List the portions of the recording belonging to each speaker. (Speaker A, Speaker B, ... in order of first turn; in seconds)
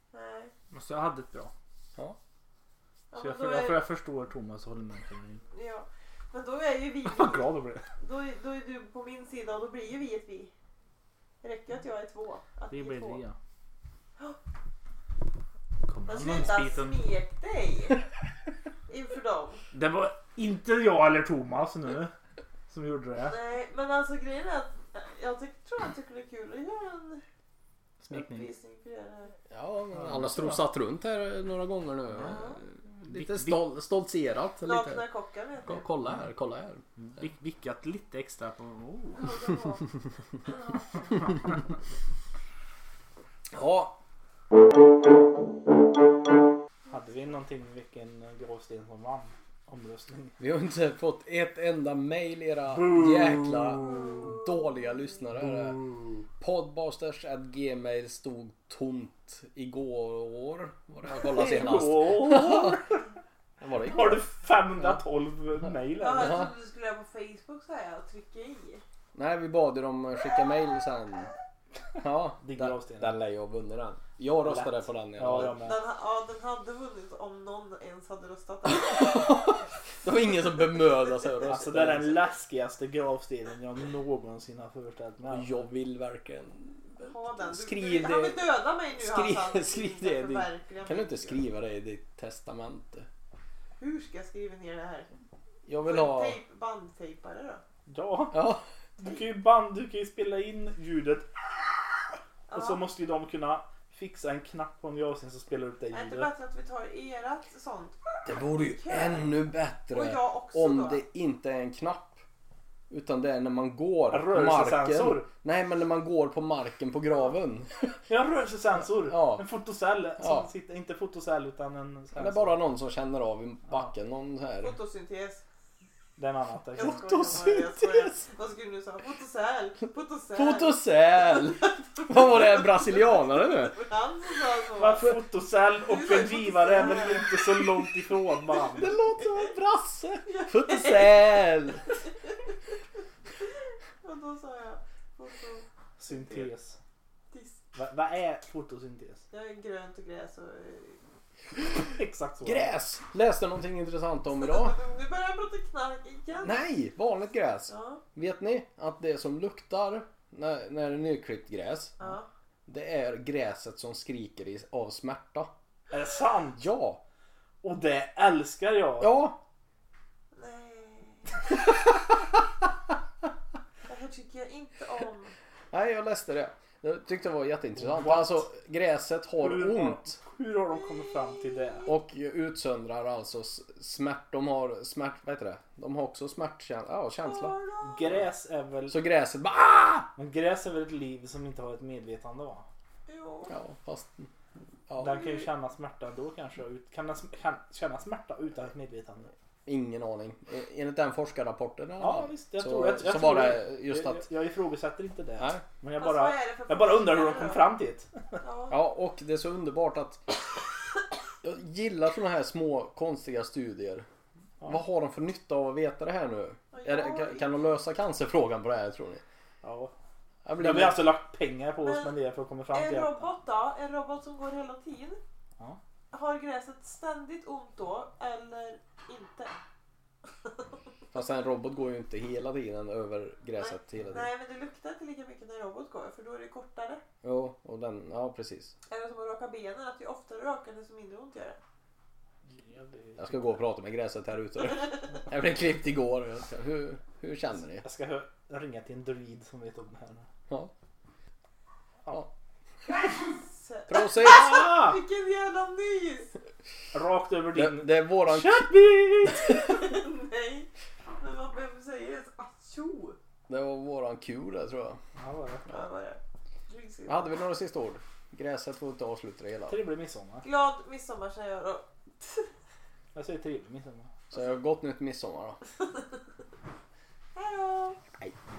Speaker A: 0.1-0.5, 3.1-3.9, 5.5-10.5, 11.4-13.2, 16.1-18.0, 18.9-19.6, 23.3-27.2, 28.1-29.4, 32.2-32.6, 34.6-35.8, 39.2-39.9, 40.5-41.3, 66.0-68.8, 75.5-79.3, 87.0-91.4, 93.8-95.1, 95.8-97.6, 102.5-102.8, 105.9-109.3, 109.9-111.0, 124.6-125.4, 126.7-135.2, 135.8-137.9, 138.6-139.5, 140.2-141.5, 144.0-146.5, 147.3-147.6, 149.3-151.0, 154.4-156.6, 157.7-158.0, 162.0-162.3, 170.3-171.3, 173.9-175.3, 180.8-181.9, 187.2-188.2, 193.1-193.5, 195.1-195.4, 206.0-207.7, 208.4-208.8, 216.7-217.6, 221.8-222.2, 222.7-225.2, 226.1-229.6, 233.6-237.0, 238.9-241.6, 253.1-256.3, 259.3-260.7, 261.2-263.2, 265.7-267.4, 270.4-272.5, 277.4-278.0
Speaker B: 0.7-1.5, 3.1-5.4, 7.0-7.9, 12.7-13.4, 15.9-17.0, 19.7-22.1, 22.7-23.4, 28.0-28.5, 29.9-30.7, 33.0-33.6, 37.0-39.4, 46.9-50.4, 52.8-54.1, 61.2-63.0, 63.8-66.5, 72.4-73.2, 74.4-75.8, 81.4-85.5, 97.9-98.4, 99.0-101.3, 102.5-106.3, 114.1-115.3, 118.1-122.6, 126.2-127.0, 134.8-139.0, 146.0-146.8, 147.8-149.2, 151.9-152.7, 165.9-166.7, 167.6-169.2, 177.8-178.5, 179.4-181.9, 187.8-189.0, 190.2-192.7, 195.0-199.3, 202.0-208.1, 219.6-219.9, 220.6-223.3, 242.5-243.5, 247.8-250.3, 254.2-255.0, 256.9-259.6, 265.2-265.7, 269.7-270.4, 273.1-274.1
Speaker C: 29.5-35.1, 35.6-36.9, 43.5-44.0, 50.4-62.8, 63.6-64.3, 66.1-66.5, 69.2-71.3, 72.0-75.6, 78.7-82.3, 85.3-93.1, 95.7-96.4, 98.3-98.7, 108.2-112.2, 112.9-118.0, 119.0-119.5, 120.2-120.5, 122.2-124.8, 126.8-128.3, 130.4-133.8, 138.8-141.9, 152.4-154.8, 156.4-162.0, 162.7-165.5, 166.6-167.0, 169.0-169.4, 175.7-180.2, 181.8-187.6, 188.9-190.1, 193.5-194.3, 194.9-195.2, 199.7-204.3, 205.4-205.6, 208.7-210.3, 211.4-214.1, 214.7-219.2, 220.4-221.0, 231.1-234.3, 237.2-238.7, 243.2-247.8, 253.9-254.6, 257.5-259.8, 263.5-265.0, 267.1-269.8, 274.3-275.6